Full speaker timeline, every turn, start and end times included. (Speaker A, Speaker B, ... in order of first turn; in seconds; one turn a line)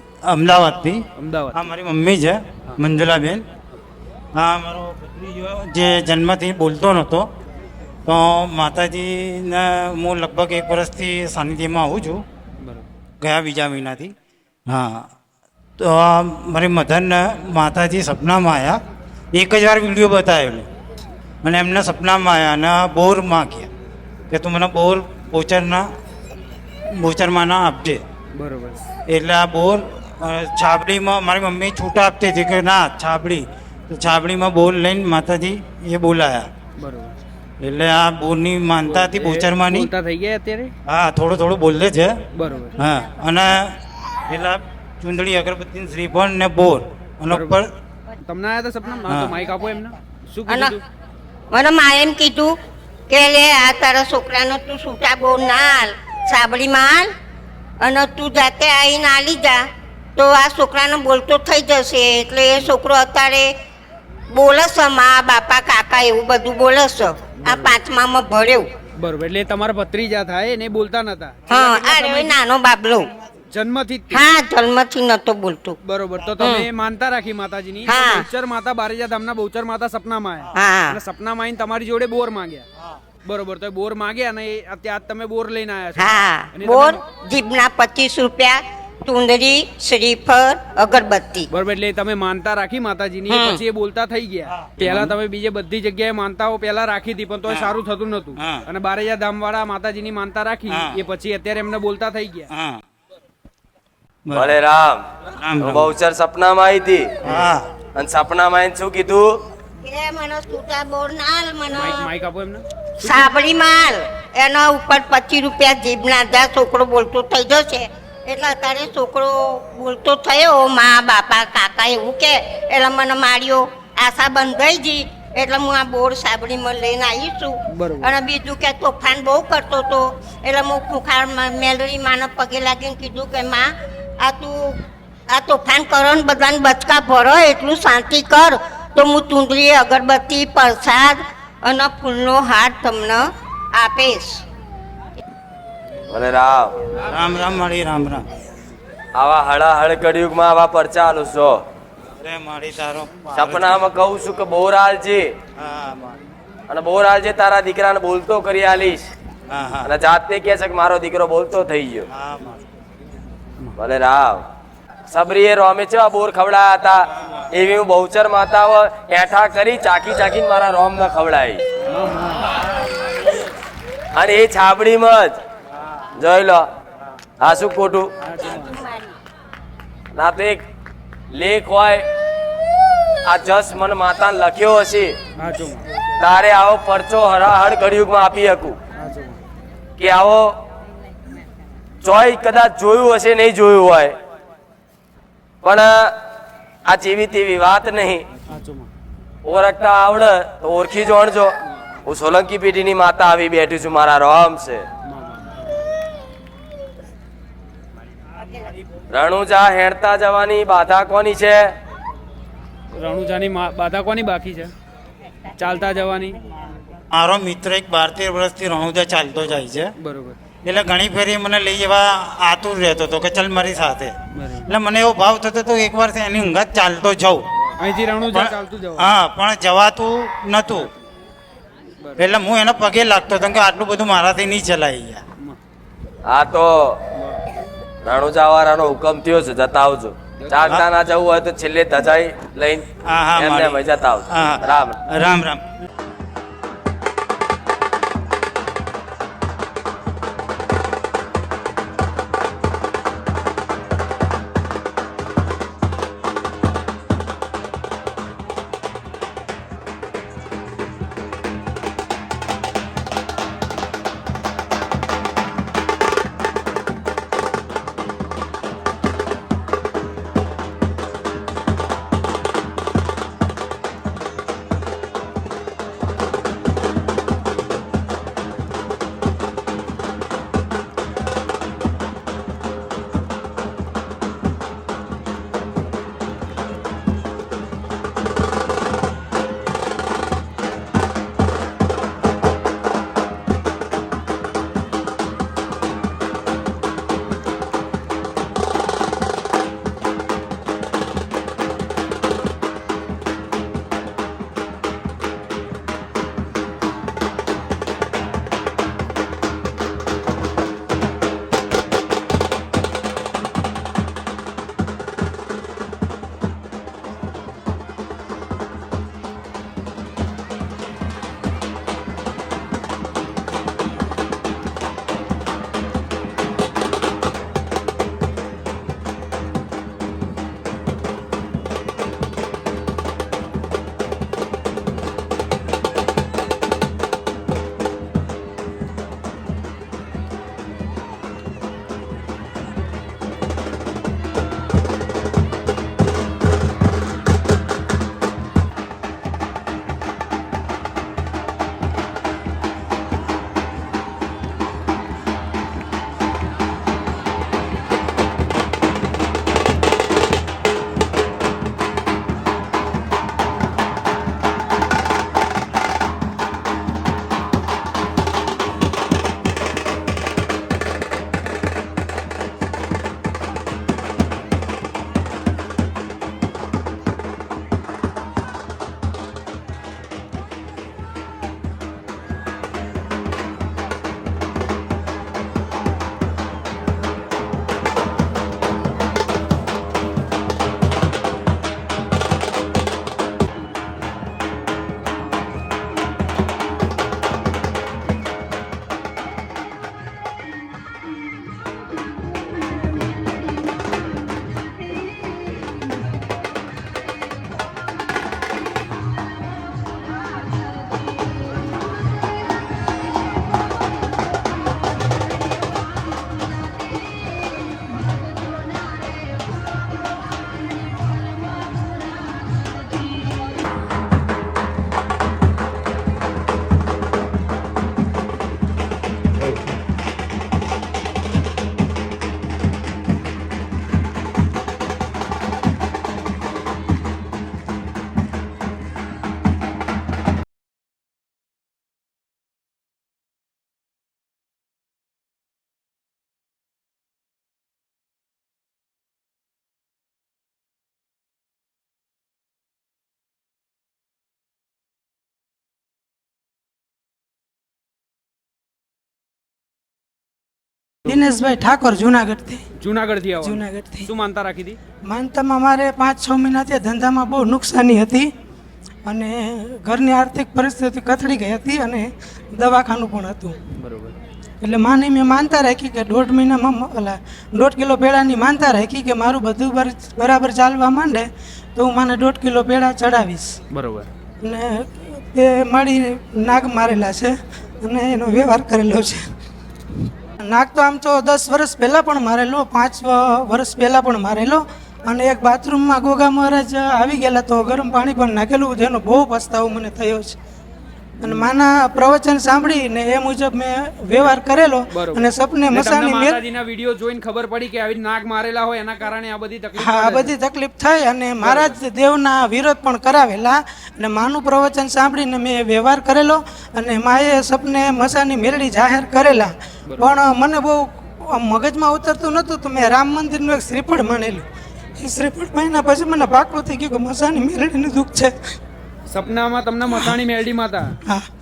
Speaker A: 0.2-3.5
Speaker B: 1.2-1.7
Speaker A: 4.3-7.3
Speaker A: 8.1-12.2
Speaker A: 13.2-14.1
Speaker A: 14.7-15.1
Speaker A: 15.8-18.8
Speaker A: 19.3-20.7
Speaker A: 21.4-23.7
Speaker A: 24.3-25.9
Speaker A: 26.9-28.0
Speaker B: 28.3-28.9
Speaker A: 29.1-36.5
Speaker B: 36.8-37.2
Speaker A: 37.6-39.9
Speaker B: 38.8-40.7
Speaker A: 40.9-42.2
Speaker B: 42.4-42.8
Speaker A: 42.8-47.7
Speaker B: 47.3-47.6
Speaker B: 48.2-50.8
Speaker C: 50.5-50.8
Speaker C: 51.5-52.6
Speaker C: 53.1-57.1
Speaker C: 57.8-63.5
Speaker C: 64.3-68.7
Speaker B: 67.4-67.8
Speaker B: 69.0-72.4
Speaker C: 71.5-73.1
Speaker B: 73.5-74.2
Speaker C: 74.1-75.8
Speaker B: 75.8-82.7
Speaker C: 76.4-76.7
Speaker C: 77.9-78.2
Speaker C: 80.5-81.0
Speaker B: 83.2-87.0
Speaker C: 86.0-91.5
Speaker B: 91.5-102.5
Speaker C: 93.3-93.6
Speaker A: 94.7-95.1
Speaker A: 98.4-98.6
Speaker A: 100.7-101.0
Speaker A: 102.5-102.8
Speaker A: 104.3-104.6
Speaker D: 104.3-105.0
Speaker A: 105.4-105.9
Speaker D: 105.6-107.4
Speaker A: 107.2-107.7
Speaker D: 107.9-109.4
Speaker C: 109.8-112.1
Speaker B: 111.7-113.1
Speaker C: 113.0-134.8
Speaker B: 127.7-128.1
Speaker C: 135.3-144.4
Speaker D: 146.1-146.8
Speaker A: 147.1-148.3
Speaker D: 149.2-151.6
Speaker A: 152.2-153.8
Speaker D: 153.3-155.3
Speaker A: 155.6-156.2
Speaker D: 156.7-159.1
Speaker A: 159.5-159.9
Speaker D: 159.8-162.1
Speaker A: 162.1-162.6
Speaker D: 163.8-164.4
Speaker D: 165.1-171.6
Speaker B: 171.9-172.4
Speaker D: 174.1-175.4
Speaker D: 176.2-176.6
Speaker D: 177.4-178.1
Speaker B: 178.2-178.8
Speaker C: 178.6-179.0
Speaker D: 180.1-180.6
Speaker D: 181.3-182.1
Speaker D: 183.3-185.2
Speaker B: 185.4-185.9
Speaker D: 186.2-188.8
Speaker B: 189.0-189.4
Speaker D: 190.0-190.6
Speaker D: 192.0-194.2
Speaker D: 195.6-196.2
Speaker D: 196.9-198.2
Speaker B: 198.5-198.9
Speaker D: 199.4-204.8
Speaker B: 205.1-205.4
Speaker D: 209.1-211.7
Speaker B: 213.0-214.7
Speaker B: 215.6-216.4
Speaker A: 217.1-219.9
Speaker B: 220.0-220.4
Speaker A: 220.6-224.2
Speaker B: 224.3-224.7
Speaker A: 224.7-227.5
Speaker B: 227.8-229.1
Speaker A: 228.3-230.9
Speaker A: 232.2-235.2
Speaker D: 236.3-237.0
Speaker D: 238.1-245.0
Speaker A: 243.1-245.6
Speaker E: 461.1-462.6
Speaker B: 462.8-464.8
Speaker E: 463.4-464.1
Speaker E: 465.1-468.3
Speaker E: 469.1-473.6
Speaker B: 473.8-474.2
Speaker E: 474.6-483.6
Speaker B: 483.7-484.1
Speaker E: 484.4-489.2
Speaker E: 490.4-500.4
Speaker E: 501.2-506.4
Speaker B: 504.9-510.3
Speaker E: 509.8-524.4
Speaker B: 511.4-511.8
Speaker E: 525.0-528.4
Speaker B: 529.1-530.9